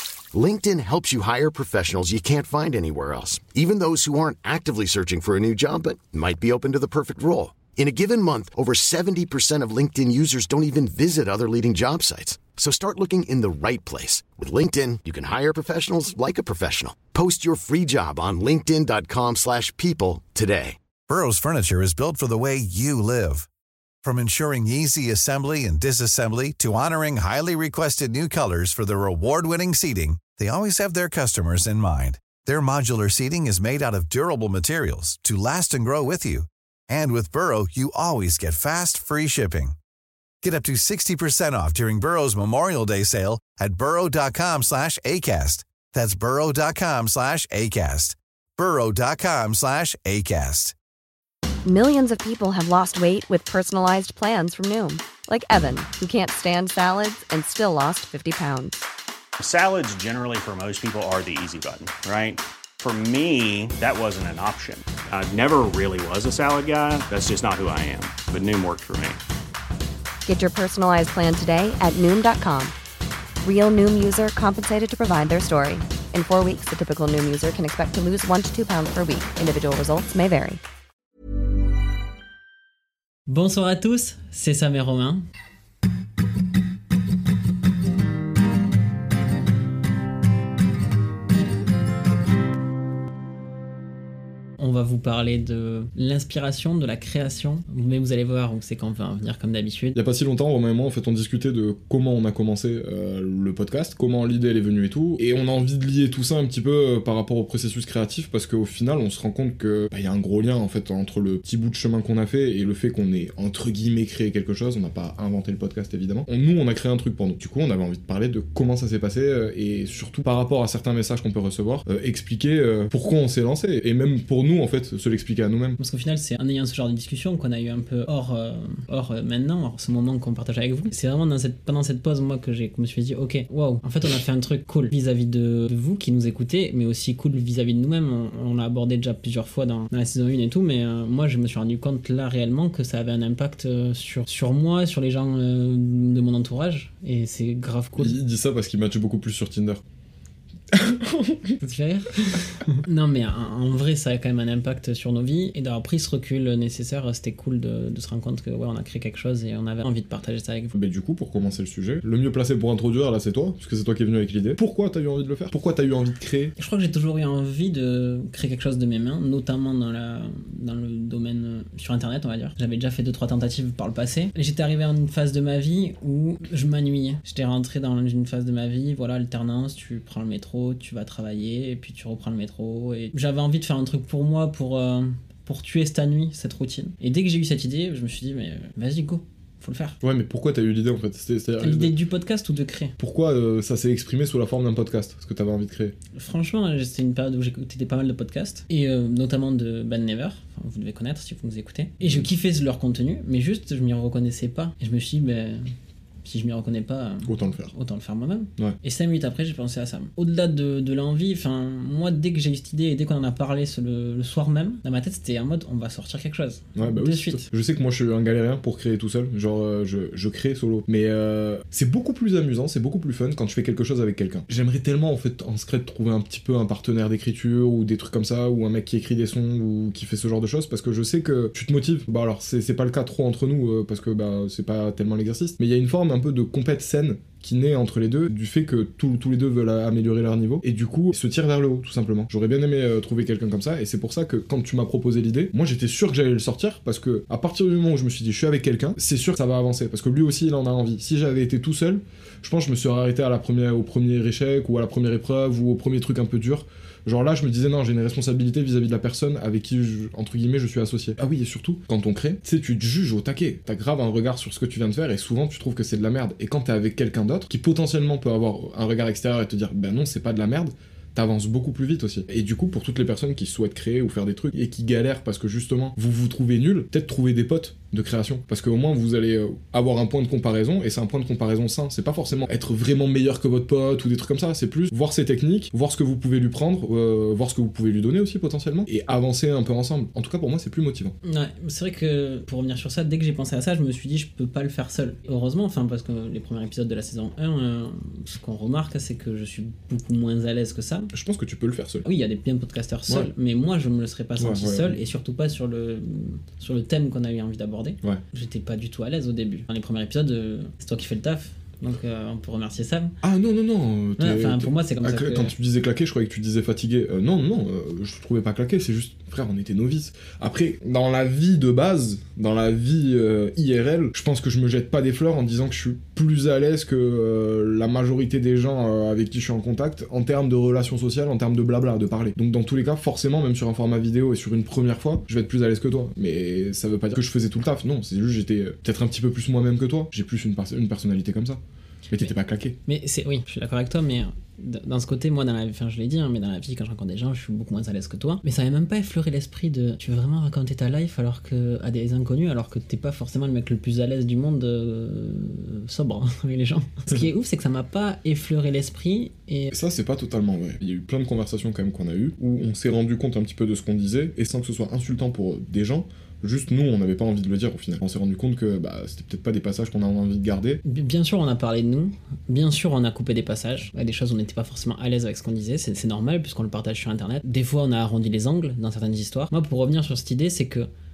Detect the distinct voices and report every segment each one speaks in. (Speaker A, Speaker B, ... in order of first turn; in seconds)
Speaker A: 0.3-20.8
Speaker B: 21.1-23.5, 24.0-39.8, 40.4-50.7
Speaker C: 51.6-58.8, 70.3-72.7, 73.4-80.6
Speaker D: 59.4-69.2
Speaker E: 83.3-85.2, 94.6-100.0, 125.8-148.2, 151.6-160.8, 166.6-190.0, 191.6-192.9, 196.2-205.7, 206.2-217.4, 291.2-301.1, 302.1-313.1, 314.2-315.5, 342.9-359.7, 370.9-380.9
Speaker F: 100.0-125.8, 148.0-149.8, 150.7-151.6, 160.7-166.5, 190.0-191.9, 193.0-195.9, 202.0-202.3, 207.2-207.7, 216.8-291.1, 301.1-302.1, 304.4-305.0, 313.2-342.8, 359.7-370.8